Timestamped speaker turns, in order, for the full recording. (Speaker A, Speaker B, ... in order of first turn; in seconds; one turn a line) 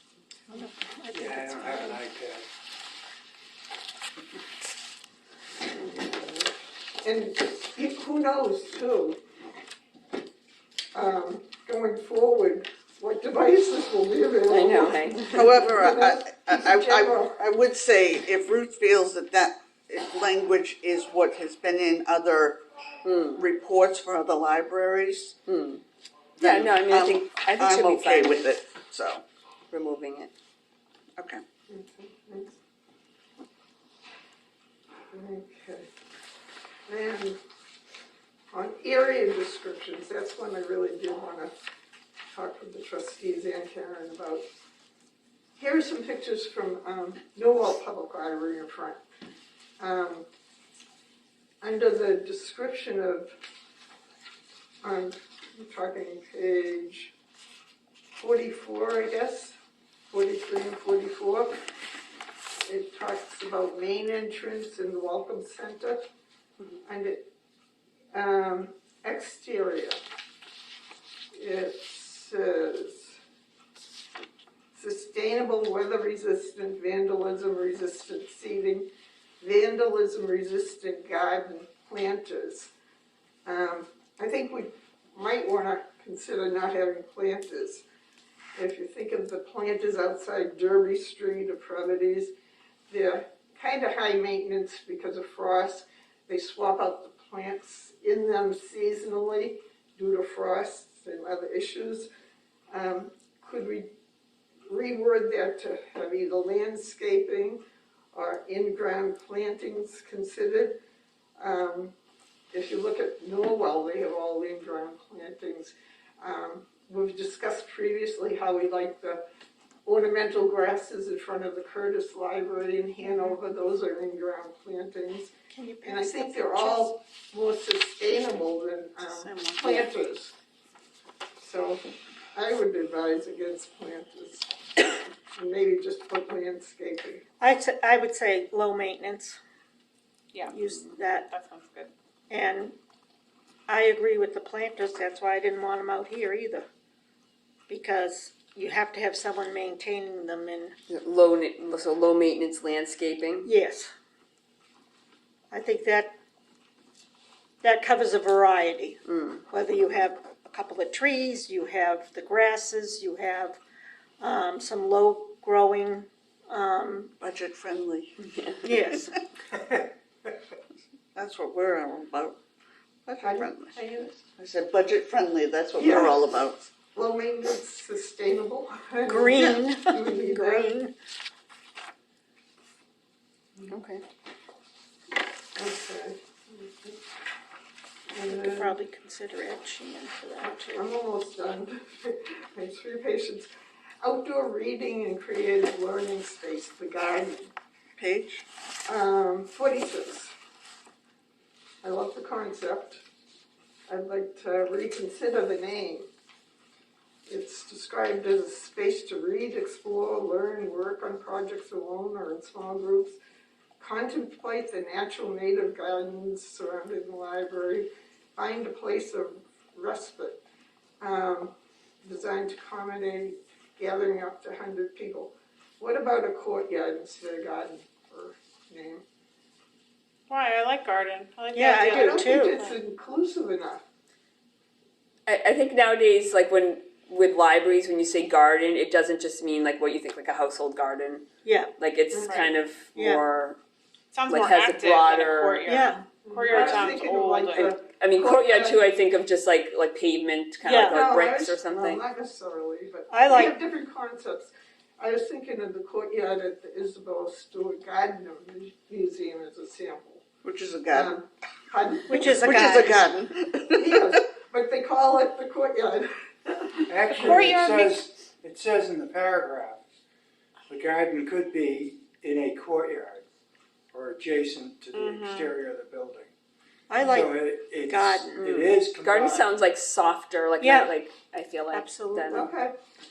Speaker A: 0.5-1.9
Speaker B: 1.1-2.5
Speaker C: 7.0-9.2
Speaker C: 10.9-17.4
Speaker D: 14.5-15.4
Speaker E: 15.3-22.6
Speaker D: 23.0-23.4
Speaker E: 23.4-25.4
Speaker D: 25.5-25.8
Speaker E: 26.4-29.2
Speaker D: 26.4-28.5
Speaker D: 29.7-30.3
Speaker E: 31.2-31.4
Speaker C: 31.7-32.6
Speaker C: 35.1-35.9
Speaker C: 36.9-37.4
Speaker C: 38.5-41.5
Speaker C: 42.3-44.5
Speaker C: 45.6-49.0
Speaker C: 49.8-50.2
Speaker C: 51.6-53.3
Speaker C: 54.8-57.1
Speaker C: 58.2-59.6
Speaker C: 60.1-61.6
Speaker C: 62.6-66.0
Speaker C: 66.8-67.3
Speaker C: 68.1-70.0
Speaker C: 71.3-73.2
Speaker C: 74.7-78.9
Speaker C: 79.4-82.7
Speaker C: 83.5-87.8
Speaker C: 88.5-92.3
Speaker C: 92.9-102.1
Speaker C: 102.7-103.9
Speaker C: 104.7-110.8
Speaker C: 111.4-111.9
Speaker C: 112.5-119.2
Speaker C: 119.8-125.3
Speaker A: 123.0-123.3
Speaker A: 125.5-126.9
Speaker C: 125.8-130.3
Speaker A: 129.1-129.9
Speaker C: 131.4-134.5
Speaker C: 135.3-137.2
Speaker A: 137.4-139.4
Speaker A: 140.5-141.3
Speaker F: 141.2-141.9
Speaker A: 142.3-142.8
Speaker A: 143.7-146.7
Speaker A: 147.7-150.8
Speaker D: 150.9-153.5
Speaker A: 153.4-153.9
Speaker A: 155.5-156.2
Speaker A: 157.6-163.6
Speaker D: 159.1-159.4
Speaker A: 164.2-167.1
Speaker E: 167.2-168.2
Speaker D: 168.2-168.7
Speaker A: 168.6-169.2
Speaker E: 171.1-172.4
Speaker E: 173.1-173.8
Speaker C: 173.2-174.2
Speaker E: 174.4-176.7
Speaker C: 175.8-176.3
Speaker C: 176.9-180.8
Speaker A: 179.1-180.9
Speaker D: 183.7-184.0
Speaker C: 185.6-187.0
Speaker C: 188.1-188.8
Speaker A: 188.3-190.8
Speaker C: 190.4-193.5
Speaker C: 194.0-197.5
Speaker E: 197.9-198.4
Speaker C: 198.8-200.3
Speaker C: 201.8-203.0
Speaker C: 203.9-206.1
Speaker C: 207.3-213.2
Speaker C: 213.8-220.4
Speaker C: 221.0-229.0
Speaker F: 230.3-232.8
Speaker A: 231.5-232.6
Speaker C: 231.8-233.8
Speaker D: 235.3-243.6
Speaker A: 241.4-241.7
Speaker C: 242.1-242.4
Speaker F: 242.2-242.5
Speaker A: 242.9-243.2
Speaker F: 244.1-247.7
Speaker D: 244.2-245.6
Speaker A: 245.6-246.0
Speaker C: 246.2-248.8
Speaker D: 246.5-246.9
Speaker D: 247.5-252.0
Speaker A: 250.6-251.1
Speaker C: 250.8-260.2
Speaker A: 253.1-253.5
Speaker E: 260.4-261.2
Speaker C: 260.9-262.7
Speaker A: 262.1-263.0
Speaker E: 262.2-264.2
Speaker C: 263.7-267.5
Speaker B: 266.9-269.8
Speaker F: 267.2-268.1
Speaker B: 270.7-273.2
Speaker B: 273.9-276.3
Speaker F: 274.9-275.5
Speaker A: 276.9-278.4
Speaker B: 277.0-279.5
Speaker D: 278.3-282.5
Speaker A: 280.6-280.9
Speaker A: 281.7-282.5
Speaker C: 282.3-282.7